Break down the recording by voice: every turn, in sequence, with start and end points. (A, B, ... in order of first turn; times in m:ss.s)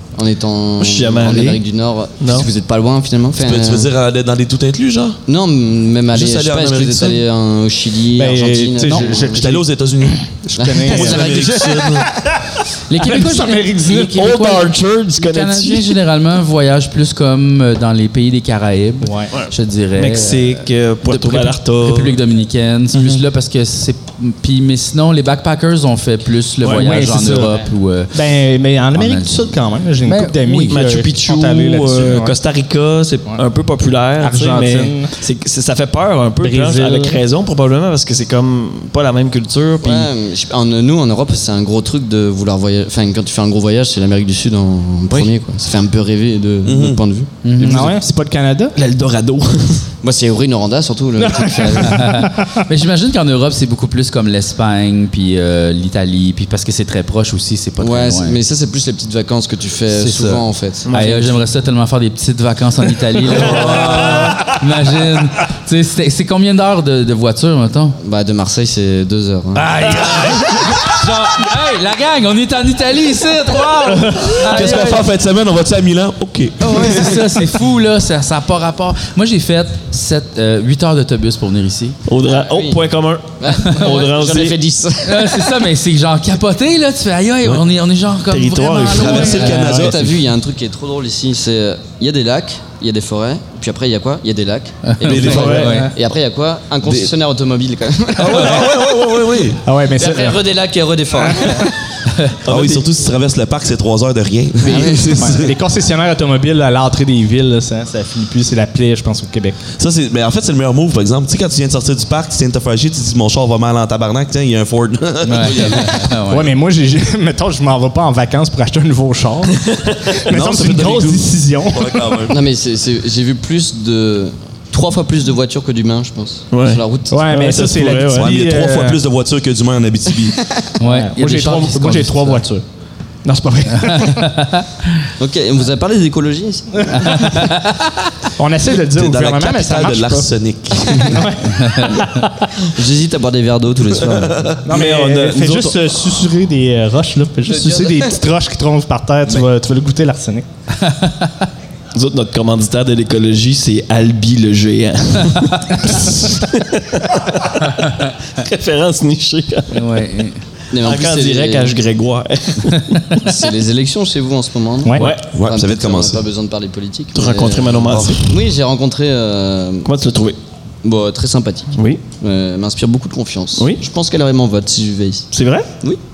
0:00.2-0:03.9 A
0:00.8-0:01.6 B
0:02.2-0:02.5 B
0:03.3-0:05.2 C
0:05.3-0:09.5 A
0:06.1-0:07.2 C
0:08.1-0:09.6 D
0:09.2-0:10.3 C
0:10.1-0:14.2 D
0:10.6-0:12.0 A
0:10.8-0:12.1 C
0:12.9-0:28.1 E
0:14.1-0:16.0 B
0:19.0-0:19.3 D
0:19.3-0:22.2 B
0:26.6-0:27.5 B
0:26.8-0:27.6 D
0:28.1-0:32.4 D
0:28.9-0:29.5 E
0:30.0-0:30.8 E
0:30.7-0:40.1 B
0:34.2-0:35.1 D
0:36.4-0:37.2 D
0:39.8-0:48.0 A
0:46.6-0:47.0 C
0:47.4-0:48.0 E
0:47.6-0:48.7 D
0:48.7-0:49.8 B
0:50.0-0:52.1 A
0:51.2-0:52.6 D
0:51.8-0:58.4 E
0:57.8-1:01.1 A
0:59.9-1:08.0 E
1:00.8-1:01.4 B
1:03.3-1:04.4 C
1:08.0-1:09.8 A
1:09.6-1:15.1 E
1:14.2-1:17.2 C
1:16.6-1:22.0 E
1:16.7-1:17.2 A
1:22.1-1:24.6 B
1:22.3-1:22.8 A
1:23.4-1:25.6 A
1:23.5-1:24.0 E
1:25.0-1:29.8 E
1:28.3-1:29.5 B
1:28.9-1:30.2 C
1:29.3-1:38.8 A
1:29.5-1:29.9 D
1:34.8-1:35.9 E
1:35.0-1:35.7 C
1:35.1-1:35.9 D
1:36.8-1:37.1 C
1:38.2-1:39.6 C
1:39.6-1:40.4 D
1:39.9-1:42.0 A
1:41.2-1:41.7 D
1:42.1-1:42.3 E
1:42.4-1:45.6 C
1:42.5-1:42.7 A
1:44.6-1:45.4 A
1:45.1-1:49.6 D
1:49.8-1:56.0 C
1:55.2-1:56.5 E
1:56.1-2:02.2 D
1:59.6-2:00.0 B
2:00.3-2:02.4 C
2:02.3-2:07.6 A
2:06.5-2:06.8 B
2:07.1-2:09.0 D
2:07.4-2:10.4 C
2:07.5-2:08.2 B
2:10.8-2:12.4 E
2:10.8-2:12.6 D
2:13.2-2:14.3 D
2:13.7-2:15.1 E
2:15.2-2:17.4 A
2:16.9-2:18.0 E
2:18.4-2:20.3 D
2:18.9-2:21.2 C
2:21.0-2:22.5 D
2:21.5-2:22.0 E
2:22.7-2:24.5 A
2:24.0-2:24.6 C
2:24.6-2:30.4 D
2:24.7-2:25.8 B
2:27.5-2:28.0 A
2:30.8-2:31.4 E
2:31.9-2:39.8 B
2:39.7-2:40.4 E
2:40.7-2:41.7 A
2:40.8-2:43.2 B
2:43.2-2:49.9 A
2:44.8-2:45.1 D
2:45.0-2:45.2 B
2:45.3-2:46.2 C
2:47.1-2:48.3 B
2:47.9-2:48.2 C
2:49.8-2:50.4 B
2:50.8-2:55.3 A
2:51.8-2:52.0 B
2:53.6-2:53.8 B
2:55.3-2:55.7 B